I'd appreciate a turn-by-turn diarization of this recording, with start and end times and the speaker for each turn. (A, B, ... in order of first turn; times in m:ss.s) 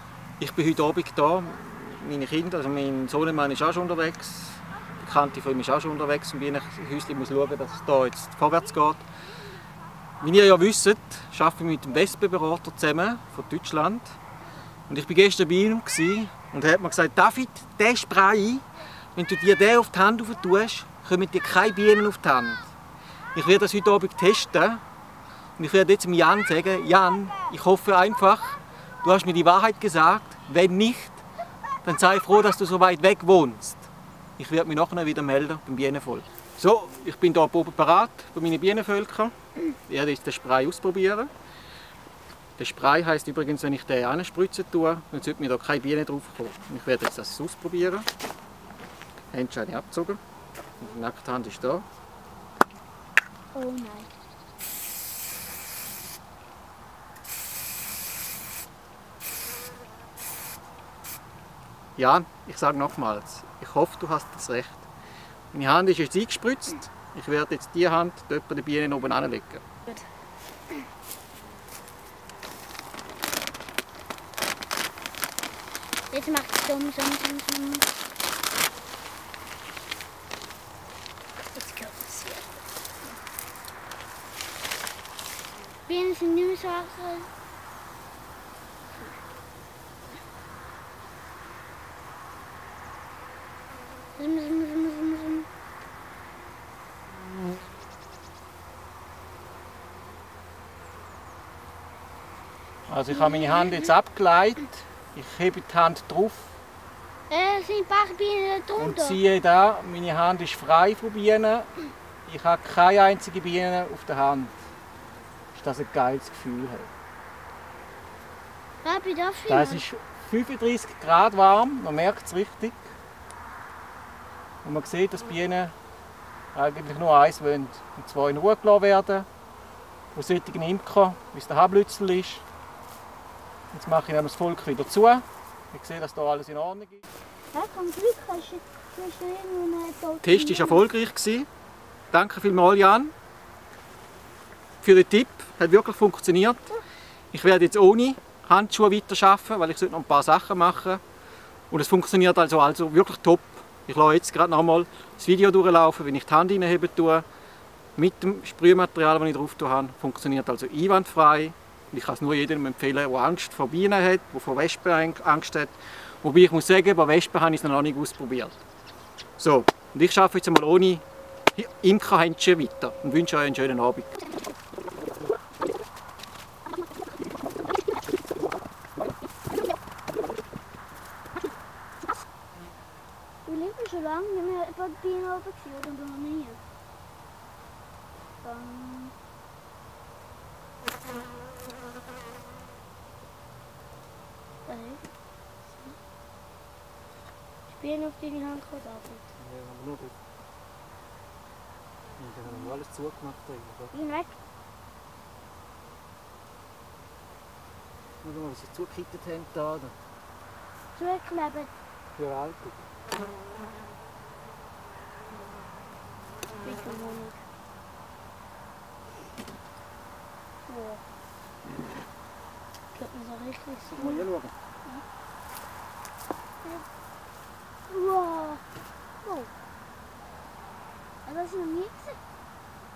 0:00.4-0:09.0 A
0:10.2-0:14.2 A
0:14.9-0:22.7 A
0:23.3-0:24.8 A
0:25.6-0:31.2 A
0:31.8-0:41.3 A
0:42.6-0:48.0 A
0:49.3-0:50.2 A
0:50.8-0:51.8 A
0:53.5-0:54.1 B
1:02.0-1:04.9 A
1:05.5-1:09.6 A
1:16.1-1:17.9 B
1:21.6-1:22.6 B
1:25.9-1:27.3 B
1:34.2-1:35.5 B
1:42.9-1:46.6 A
1:43.4-1:43.7 B
1:47.3-1:49.2 B
1:48.8-1:51.7 A
1:52.3-1:54.5 A
1:55.5-1:56.9 A
1:58.8-1:59.8 B
1:59.5-2:02.8 A
2:04.6-2:05.7 A
2:06.5-2:09.2 A
2:10.1-2:12.4 A
2:13.7-2:17.0 A
2:17.5-2:20.9 B
2:20.2-2:21.5 A
2:22.1-2:23.1 A
2:24.8-2:26.8 A
2:27.3-2:31.0 A
2:31.7-2:37.2 A
2:38.0-2:48.6 A
2:49.4-2:51.0 A
2:51.5-2:54.2 A
3:03.5-3:06.6 B
3:08.4-3:09.2 B
3:14.7-3:15.0 B
3:15.7-3:16.0 B
3:17.7-3:19.2 B
3:19.4-3:20.2 A
3:22.2-3:23.9 A
3:22.5-3:22.7 B
3:23.9-3:24.4 B
3:28.2-3:30.0 A
3:30.9-3:31.7 B
3:32.2-3:32.8 A
3:36.6-3:37.4 B
3:40.7-3:41.0 B
3:42.9-3:44.2 B
3:43.8-3:44.5 A
3:47.9-3:48.6 B
3:49.2-3:49.5 B
3:51.2-3:52.2 B